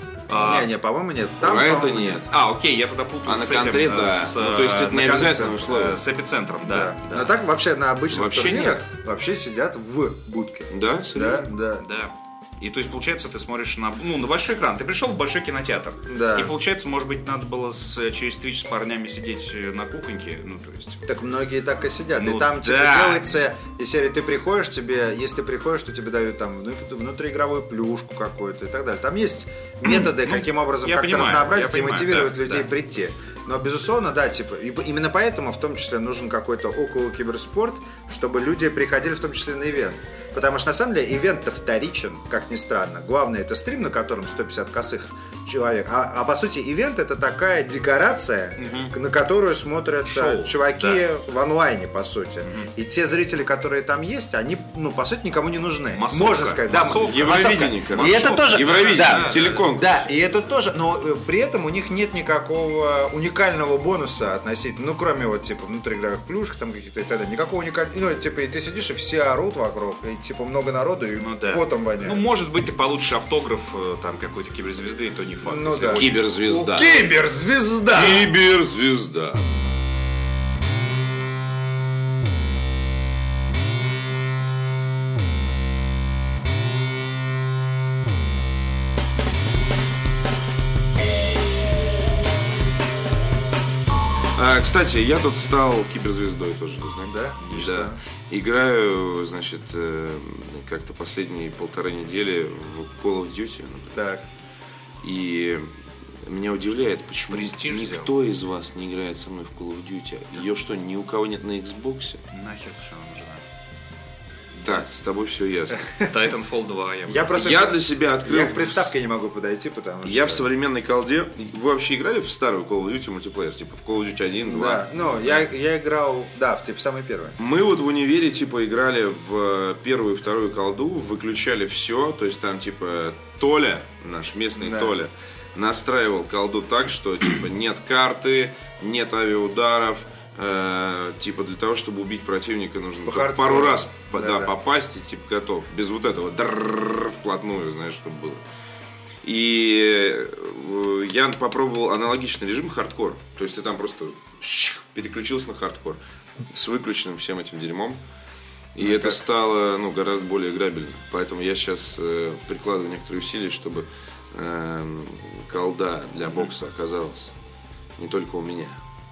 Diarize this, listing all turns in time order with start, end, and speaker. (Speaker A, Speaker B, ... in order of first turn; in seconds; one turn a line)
Speaker A: 0.3-0.7
Speaker B: 0.3-2.2
Speaker C: 1.4-2.3
Speaker A: 2.3-7.3
Speaker C: 3.2-6.0
Speaker B: 5.1-5.8
Speaker B: 6.6-11.9
Speaker C: 8.1-8.8
Speaker C: 10.7-11.4
Speaker A: 11.8-21.0
Speaker B: 16.1-16.5
Speaker B: 21.1-72.2
Speaker A: 22.1-23.3
Speaker A: 29.8-32.6
Speaker A: 48.6-48.9
Speaker A: 50.0-51.0
Speaker A: 52.4-52.7
Speaker A: 55.9-59.7
Speaker C: 56.8-60.0
Speaker A: 71.2-76.2
Speaker B: 75.4-78.3
Speaker C: 75.9-77.0
Speaker C: 77.9-79.5
Speaker C: 94.3-104.0
Speaker B: 97.1-98.0
Speaker B: 103.9-104.2
Speaker C: 105.0-105.7
Speaker C: 106.2-112.2
Speaker A: 107.3-108.1
Speaker A: 112.3-113.4
Speaker C: 114.6-115.9
Speaker A: 116.0-117.5
Speaker B: 117.1-120.5
Speaker C: 117.3-118.9
Speaker C: 120.0-124.9
Speaker B: 124.5-127.4
Speaker C: 127.4-148.4
Speaker B: 134.6-134.9
Speaker B: 143.1-144.5
Speaker C: 149.2-158.0
Speaker C: 158.7-167.3
Speaker B: 158.8-159.2
Speaker C: 168.0-168.8